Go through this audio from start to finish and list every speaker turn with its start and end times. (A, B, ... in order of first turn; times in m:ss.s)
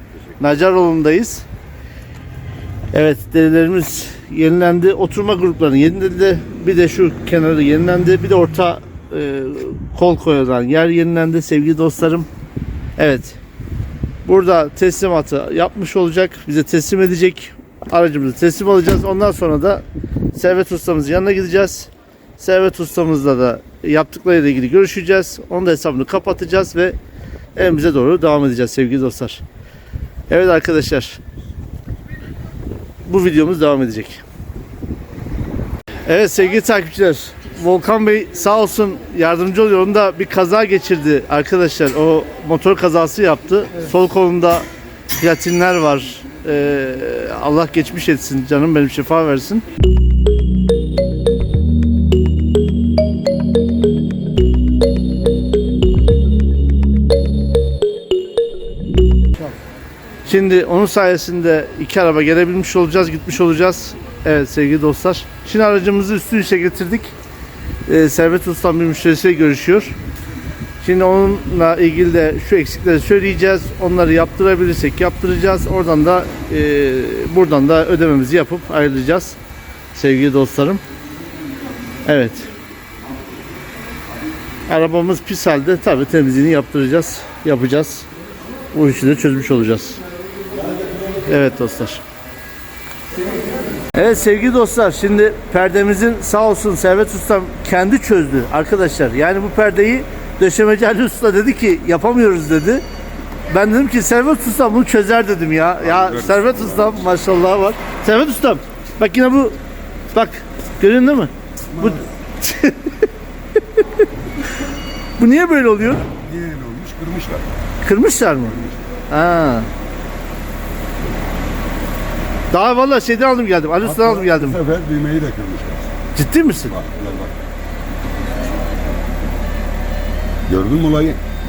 0:00.4-0:01.5 A
0:02.9-0:12.3 A
0:13.0-0:13.4 A
0:14.2-0:27.0 A
0:27.5-0:29.4 A
0:30.3-0:31.2 A
0:33.0-0:34.2 A
0:36.0-0:49.6 A
1:00.2-1:07.1 A
1:07.8-1:10.0 A
1:10.8-1:19.4 A
1:19.9-1:20.8 A
1:22.0-1:22.5 A
1:24.7-1:28.1 A
1:28.7-1:30.0 A
1:31.2-1:32.0 A
1:33.9-1:42.8 A
1:43.5-1:49.6 A
1:46.0-1:46.6 B
1:50.1-1:53.1 A
1:51.7-1:52.0 B
1:53.7-1:54.1 A
1:55.2-1:56.1 A
1:56.1-1:57.4 B
1:57.8-1:59.7 A
2:02.5-2:04.6 A
2:03.8-2:05.9 B
2:06.1-2:06.8 A
2:06.8-2:07.3 B
2:10.5-2:11.2 B